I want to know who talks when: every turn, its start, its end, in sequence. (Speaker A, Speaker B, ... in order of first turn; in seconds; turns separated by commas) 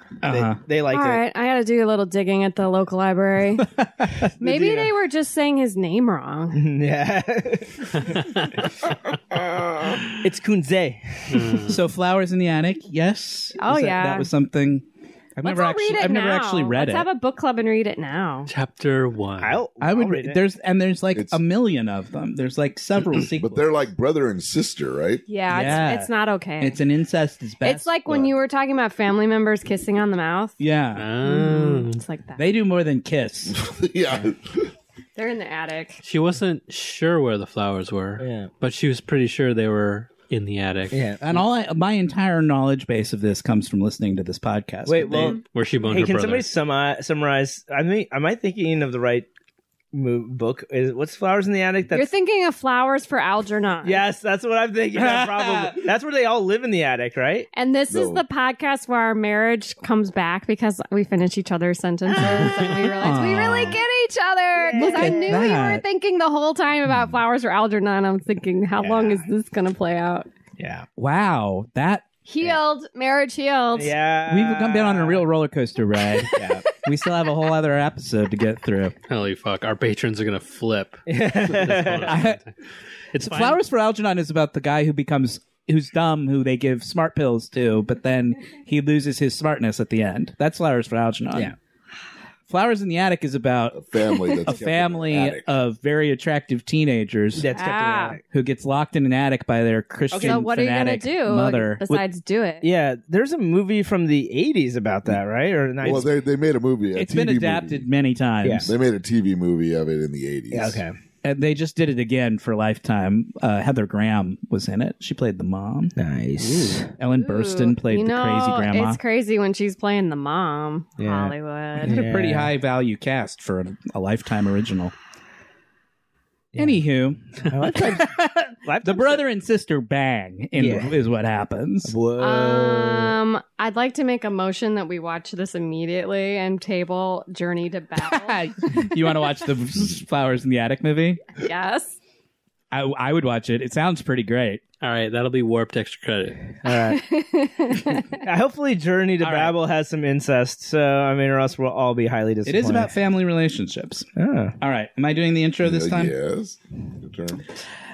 Speaker A: 0.2-0.6, Speaker B: 0.3-1.2, Speaker C: 0.9-3.8, Speaker B: 4.4-4.9, Speaker C: 4.4-6.7, Speaker B: 6.5-8.2, Speaker B: 10.1-11.6, Speaker D: 11.3-11.8, Speaker A: 11.7-14.8, Speaker C: 13.6-14.3, Speaker A: 15.4-17.1, Speaker C: 15.4-18.5, Speaker D: 18.5-19.6, Speaker B: 19.4-20.4, Speaker A: 19.8-23.9, Speaker E: 21.1-21.4, Speaker E: 23.3-25.2, Speaker C: 25.3-26.8, Speaker A: 25.5-27.9, Speaker C: 27.6-30.5, Speaker A: 30.6-31.1, Speaker D: 30.9-32.0, Speaker C: 31.2-32.4, Speaker A: 32.4-33.6, Speaker E: 33.5-34.7, Speaker C: 35.2-36.0, Speaker D: 36.0-41.0, Speaker B: 38.2-38.5, Speaker B: 40.9-41.4, Speaker A: 41.2-45.4, Speaker B: 44.9-49.3, Speaker D: 45.5-46.5, Speaker B: 49.9-52.1, Speaker C: 51.9-54.1, Speaker B: 53.8-57.5, Speaker A: 55.0-55.8, Speaker C: 57.5-70.3, Speaker E: 57.9-58.2, Speaker B: 62.2-62.7, Speaker A: 63.0-63.8, Speaker B: 64.6-65.4, Speaker A: 64.8-65.8, Speaker B: 68.8-69.3, Speaker B: 70.6-70.9, Speaker A: 71.0-72.1, Speaker C: 72.3-74.0, Speaker B: 73.8-75.2, Speaker A: 74.3-79.0, Speaker B: 76.4-76.7, Speaker D: 79.1-82.5, Speaker B: 81.1-82.1, Speaker A: 82.0-82.4, Speaker A: 83.1-91.5, Speaker D: 83.2-83.6, Speaker A: 92.5-97.5, Speaker E: 93.7-95.5, Speaker B: 97.3-98.2, Speaker C: 97.5-98.2, Speaker A: 98.2-102.0, Speaker B: 100.1-100.4, Speaker C: 100.2-102.7, Speaker B: 102.6-106.1, Speaker E: 105.8-107.9, Speaker A: 106.9-108.7, Speaker B: 108.4-108.7, Speaker E: 108.7-110.8, Speaker B: 110.5-111.0, Speaker A: 111.2-119.0, Speaker B: 116.0-116.9, Speaker C: 117.0-122.0, Speaker B: 121.0-122.5, Speaker A: 121.8-124.9, Speaker B: 126.5-126.8, Speaker A: 126.6-131.9, Speaker B: 127.5-128.1, Speaker B: 128.7-129.2, Speaker B: 130.6-130.9, Speaker B: 131.9-133.2, Speaker C: 132.2-138.4, Speaker A: 138.0-141.3, Speaker C: 141.3-142.0, Speaker A: 142.7-144.6, Speaker D: 144.8-146.6, Speaker B: 146.6-147.0, Speaker C: 146.7-148.0, Speaker B: 148.0-152.9, Speaker A: 149.2-149.6, Speaker A: 152.4-154.1, Speaker B: 154.2-154.6, Speaker A: 154.6-156.1, Speaker E: 155.6-157.4